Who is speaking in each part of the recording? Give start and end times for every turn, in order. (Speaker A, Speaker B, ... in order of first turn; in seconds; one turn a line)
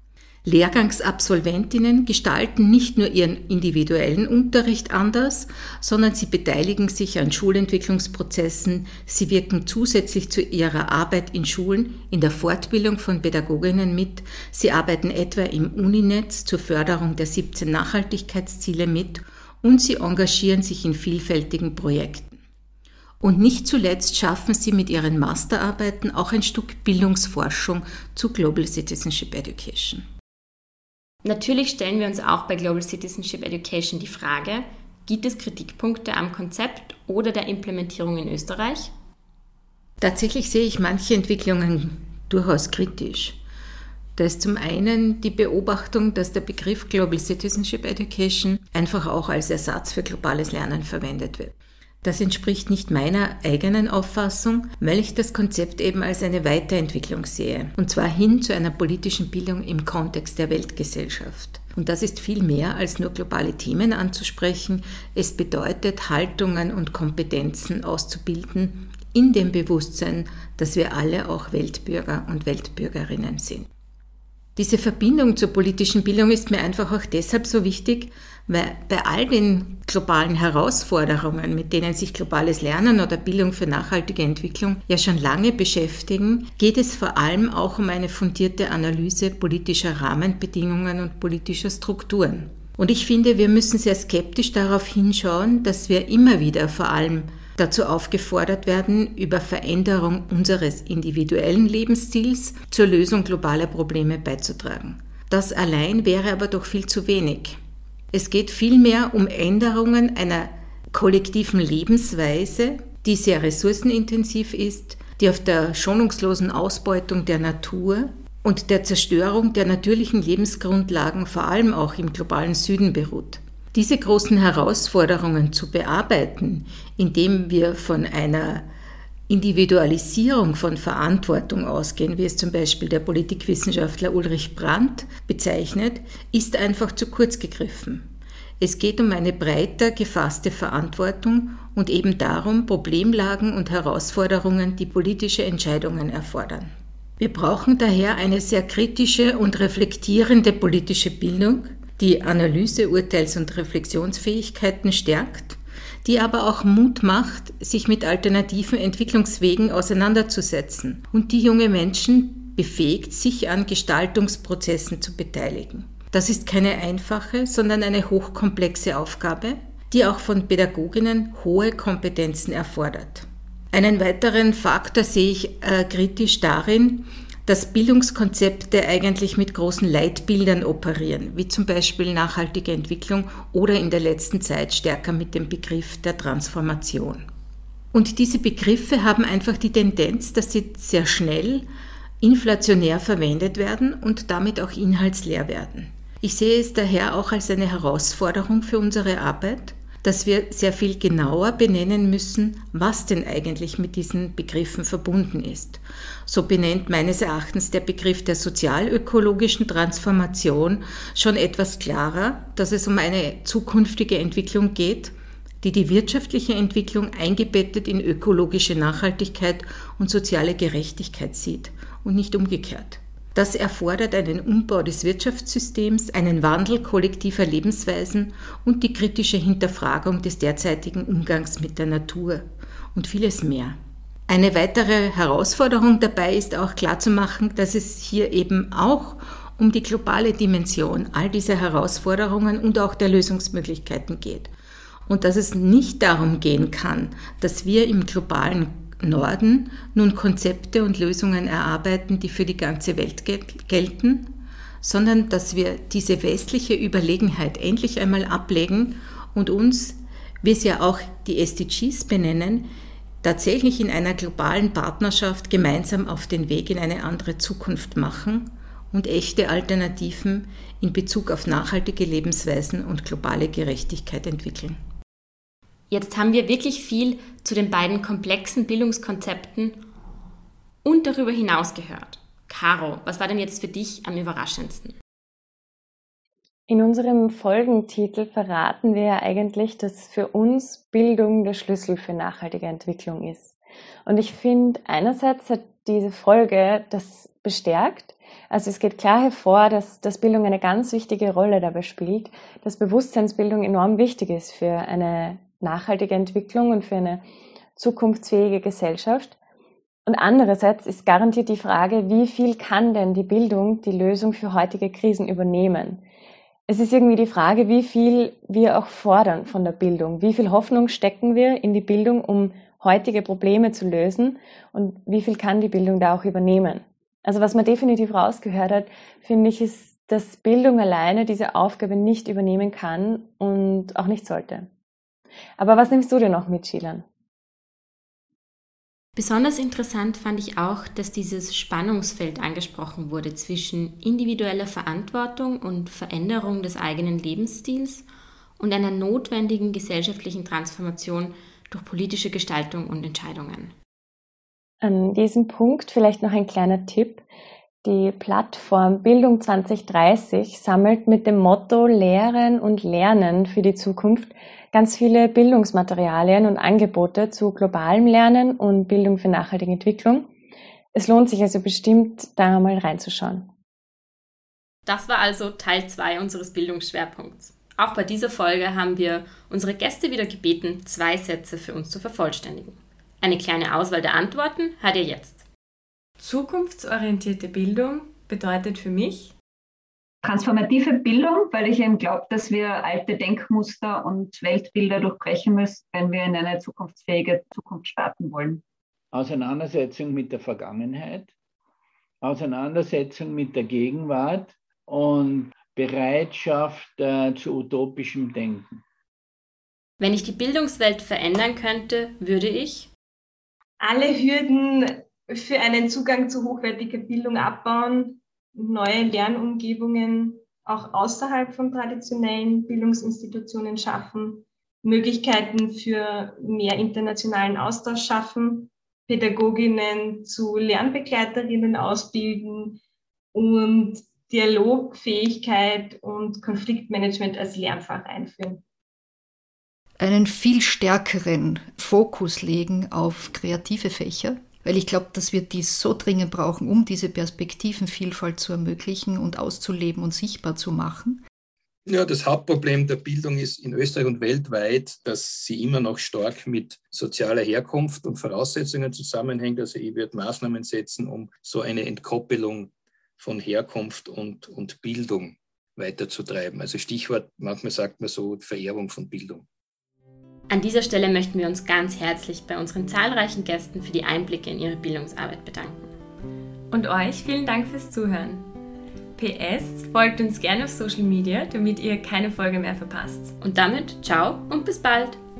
Speaker A: 0.4-22.4
Speaker A: 23.2-30.1
Speaker B: 31.2-38.9
Speaker A: 40.0-43.4
Speaker A: 44.1-73.7
Speaker A: 74.5-107.6
Speaker A: 108.1-128.7
Speaker A: 129.3-138.1
Speaker A: 138.6-187.2
Speaker A: 187.9-191.7
Speaker A: 192.2-244.5
Speaker A: 245.1-262.7
Speaker A: 263.2-274.8
Speaker B: 275.9-279.8
Speaker B: 280.8-284.9
Speaker C: 286.7-307.2
Speaker C: 307.8-309.3
Speaker C: 310.1-316.0
Speaker C: 316.7-334.7
Speaker C: 335.6-337.0
Speaker B: 339.1-348.1
Speaker B: 348.6-353.7
Speaker C: 354.8-357.2
Speaker C: 357.8-370.3
Speaker C: 370.9-373.5
Speaker B: 374.9-385.4
Speaker D: 386.2-389.3
Speaker E: 390.2-398.6
Speaker F: 399.1-401.3
Speaker F: 402.2-408.8
Speaker B: 410.0-412.9
Speaker G: 413.8-432.8
Speaker G: 433.3-438.6
Speaker H: 440.0-451.2
Speaker I: 451.9-469.4
Speaker B: 470.5-475.9
Speaker D: 476.7-478.5
Speaker D: 479.1-483.3
Speaker B: 483.4-485.2